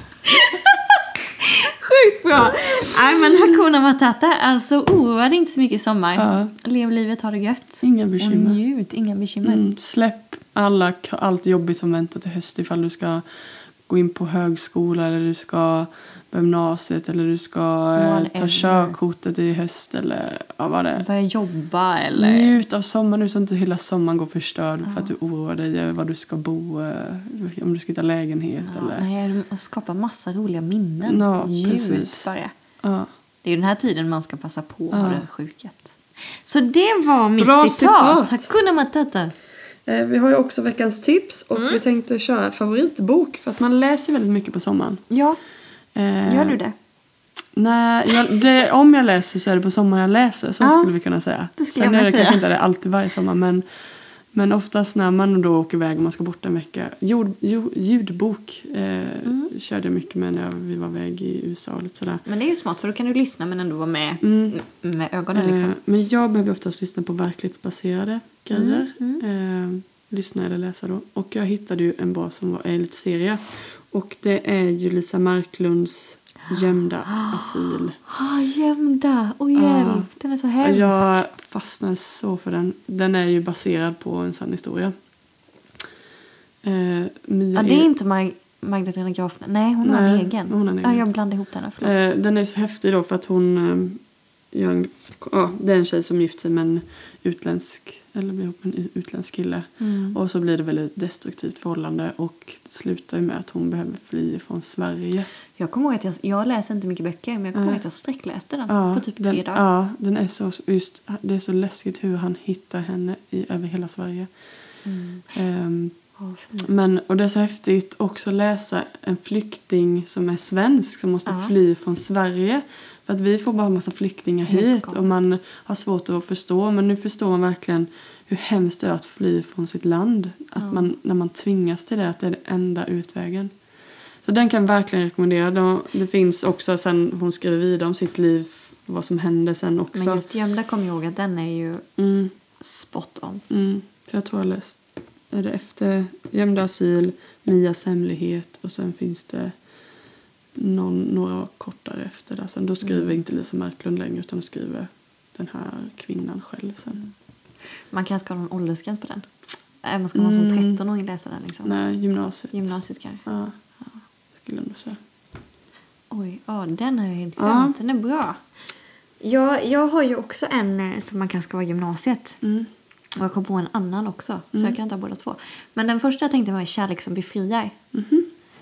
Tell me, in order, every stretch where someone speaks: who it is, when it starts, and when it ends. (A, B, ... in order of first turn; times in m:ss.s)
0:00.2-0:09.6 A
0:06.2-0:06.5 B
0:07.8-0:08.6 B
0:09.4-0:13.2 B
0:13.9-0:21.0 B
0:17.9-0:19.0 A
0:21.0-0:22.6 A
0:22.2-0:29.1 B
0:24.8-0:25.1 A
0:28.6-0:32.5 A
0:31.0-0:32.3 B
0:32.8-0:33.1 B
0:33.4-0:39.3 A
0:34.9-0:35.2 B
0:37.4-0:38.5 B
0:39.8-0:45.0 B
0:45.1-0:45.4 A
0:45.9-0:46.6 B
0:46.2-0:46.7 A
0:47.6-0:53.6 B
0:50.6-0:50.9 A
0:51.6-0:52.4 A
0:54.3-1:02.2 B
0:59.2-0:59.5 A
1:02.2-1:05.8 A
1:04.2-1:04.6 B
1:05.3-1:18.0 B
1:08.5-1:09.2 A
1:17.0-1:21.2 A
1:19.6-1:20.1 B
1:20.6-1:24.9 B
1:26.6-1:27.9 B
1:27.5-1:31.9 A
1:29.8-1:31.0 B
1:31.8-1:45.3 B
1:39.8-1:40.2 A
1:45.6-1:49.6 A
1:47.5-1:47.8 B
1:48.7-1:54.3 B
1:54.8-1:55.2 A
1:55.3-1:56.0 B
1:56.2-1:56.7 A
1:56.6-2:13.5 B
2:01.2-2:01.5 A
2:04.5-2:05.0 A
2:10.6-2:10.9 A
2:14.2-2:20.2 B
2:19.9-2:21.9 A
2:22.0-2:22.3 B
2:22.6-2:23.4 A
2:23.5-2:24.8 B
2:25.3-2:29.5 B
2:30.5-2:37.0 B
2:32.8-2:33.1 A
2:37.9-2:39.2 A
2:39.8-2:41.8 A
2:40.1-2:40.8 B
2:41.6-2:42.7 B
2:42.5-2:43.2 A
2:43.2-2:43.5 B
2:44.4-2:45.0 B
2:46.1-2:48.4 A
2:47.4-2:47.8 B
2:49.2-2:52.4 A
2:52.4-2:52.7 B
2:53.1-2:57.8 A
2:57.9-2:58.3 B